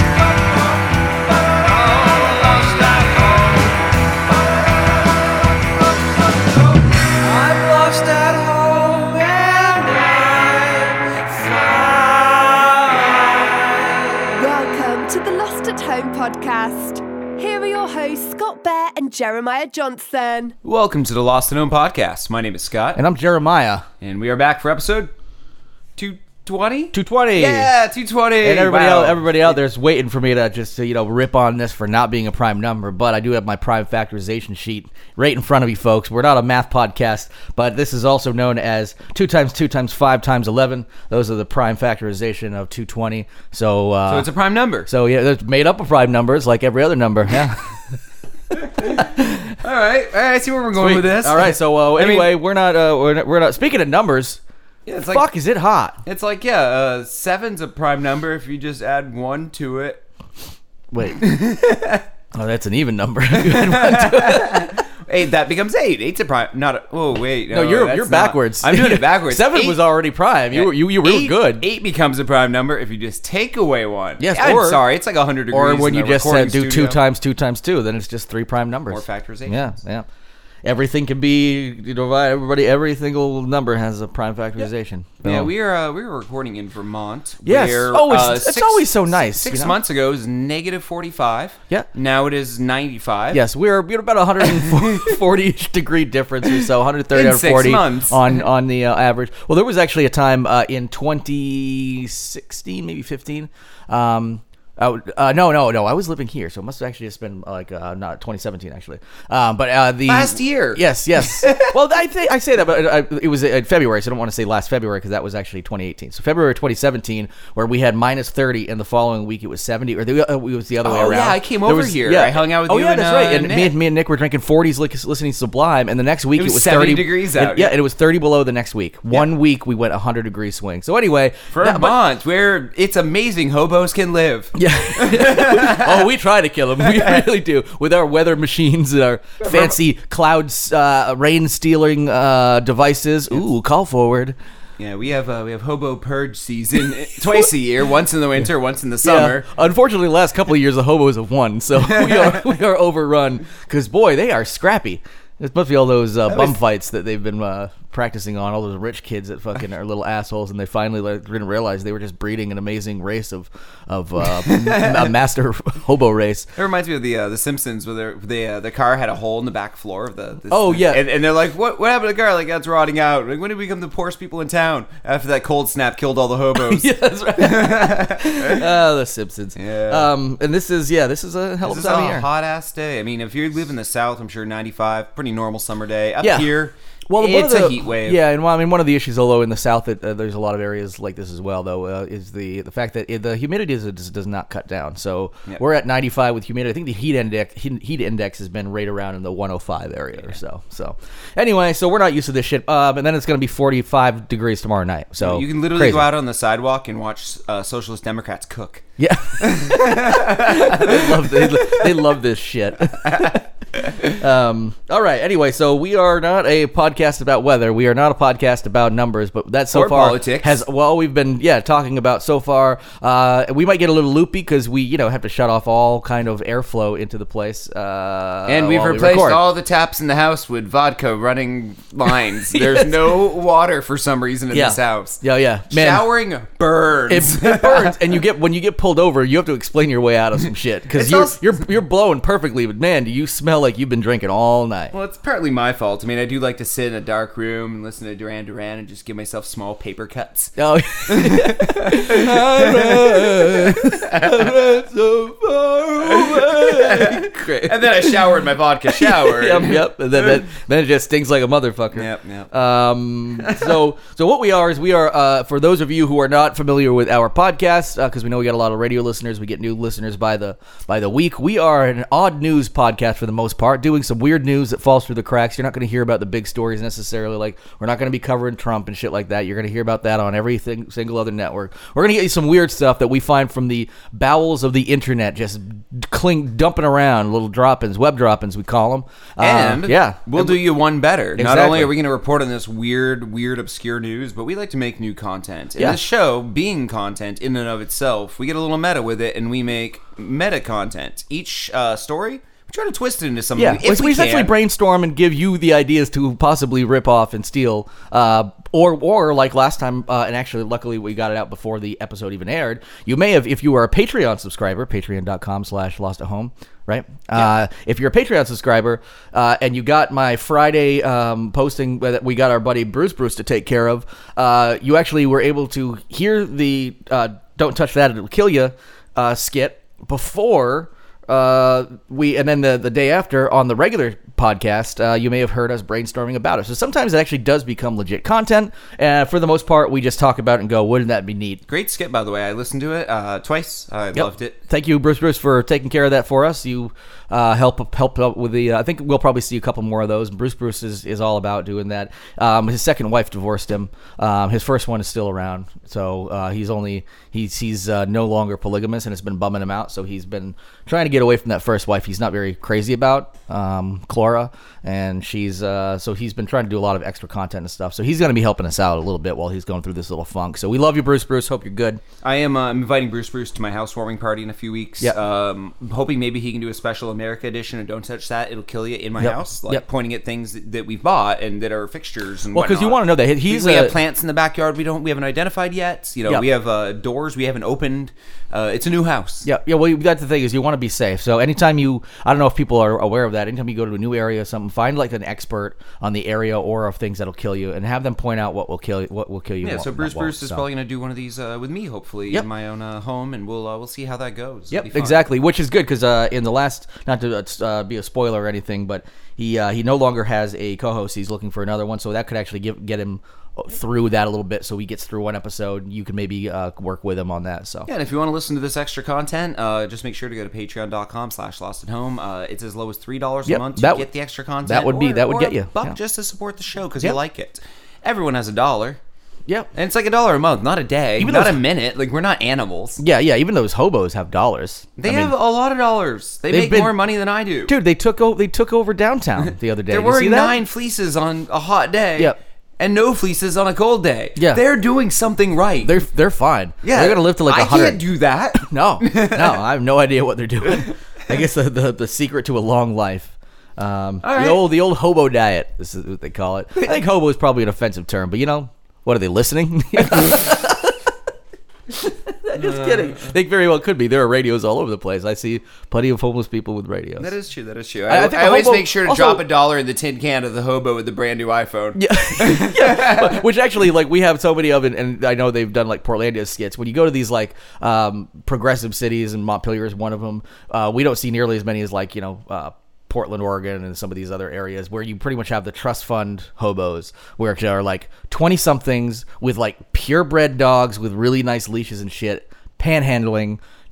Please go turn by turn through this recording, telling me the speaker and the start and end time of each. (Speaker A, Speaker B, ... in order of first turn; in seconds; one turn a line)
Speaker A: 2.6-3.1
Speaker B: 7.2-13.0
Speaker C: 14.3-20.5
Speaker A: 20.6-23.0
Speaker B: 22.9-23.9
Speaker A: 24.0-25.1
Speaker A: 26.0-29.5
Speaker B: 26.9-27.7
Speaker B: 28.4-44.3
Speaker A: 44.1-44.9
Speaker B: 44.9-47.7
Speaker A: 48.6-49.1
Speaker B: 48.8-49.5
Speaker A: 49.6-52.3
Speaker B: 50.7-54.4
Speaker A: 54.9-55.3
Speaker B: 55.0-56.0
Speaker A: 56.0-60.0
Speaker B: 60.9-61.3
Speaker A: 61.1-62.0
Speaker B: 62.3-64.8
Speaker A: 63.3-69.8
Speaker B: 67.5-71.7
Speaker A: 70.5-77.0
Speaker B: 74.2-74.8
Speaker B: 75.5-80.0
Speaker A: 78.9-79.6
Speaker B: 80.6-85.5
Speaker A: 85.2-93.4
Speaker B: 87.4-89.8
Speaker B: 93.3-132.0
Speaker A: 94.4-95.1
Speaker A: 96.5-98.4
Speaker A: 110.1-111.7
Speaker A: 120.8-123.7
Speaker A: 126.3-127.7
Speaker A: 131.5-136.0
Speaker B: 134.5-144.3
Speaker A: 136.9-137.2
Speaker A: 139.4-139.7
Speaker A: 144.8-149.5
Speaker B: 149.0-166.5
Speaker A: 164.2-165.1
Speaker A: 166.6-178.7
Speaker B: 170.5-171.0
Speaker B: 176.5-182.2
Speaker A: 179.6-180.1
Speaker A: 181.6-188.2
Speaker B: 186.2-186.6
Speaker B: 187.1-206.1
Speaker A: 205.2-211.8
Speaker B: 209.0-213.4
Speaker A: 213.0-214.1
Speaker B: 214.0-229.4
Speaker A: 219.7-220.6
Speaker A: 228.5-238.1
Speaker B: 232.5-232.9
Speaker B: 234.5-236.1
Speaker B: 237.1-244.9
Speaker A: 240.9-241.6
Speaker A: 244.9-254.6
Speaker B: 250.6-258.4
Speaker A: 256.0-260.3
Speaker B: 258.9-290.6
Speaker A: 261.9-262.5
Speaker A: 263.4-263.8
Speaker A: 289.4-304.5
Speaker B: 291.4-291.9
Speaker B: 295.8-296.0
Speaker B: 303.6-341.6
Speaker A: 341.7-344.6
Speaker B: 344.1-372.0
Speaker A: 372.2-389.5
Speaker B: 379.2-379.8
Speaker B: 382.5-384.0
Speaker B: 389.4-400.6
Speaker A: 399.6-405.2
Speaker B: 404.7-417.9
Speaker A: 417.9-429.0
Speaker B: 423.4-424.1
Speaker B: 424.6-425.9
Speaker A: 429.7-433.0
Speaker B: 431.2-431.6
Speaker B: 433.0-435.3
Speaker A: 435.0-437.7
Speaker B: 436.5-436.9
Speaker B: 437.7-440.6
Speaker A: 439.4-445.9
Speaker B: 444.4-444.6
Speaker B: 445.8-448.0
Speaker A: 446.8-449.6
Speaker B: 448.6-461.1
Speaker A: 454.2-454.7
Speaker B: 461.9-467.3
Speaker A: 462.5-463.3
Speaker A: 467.2-473.4
Speaker B: 468.1-469.4
Speaker B: 471.9-493.6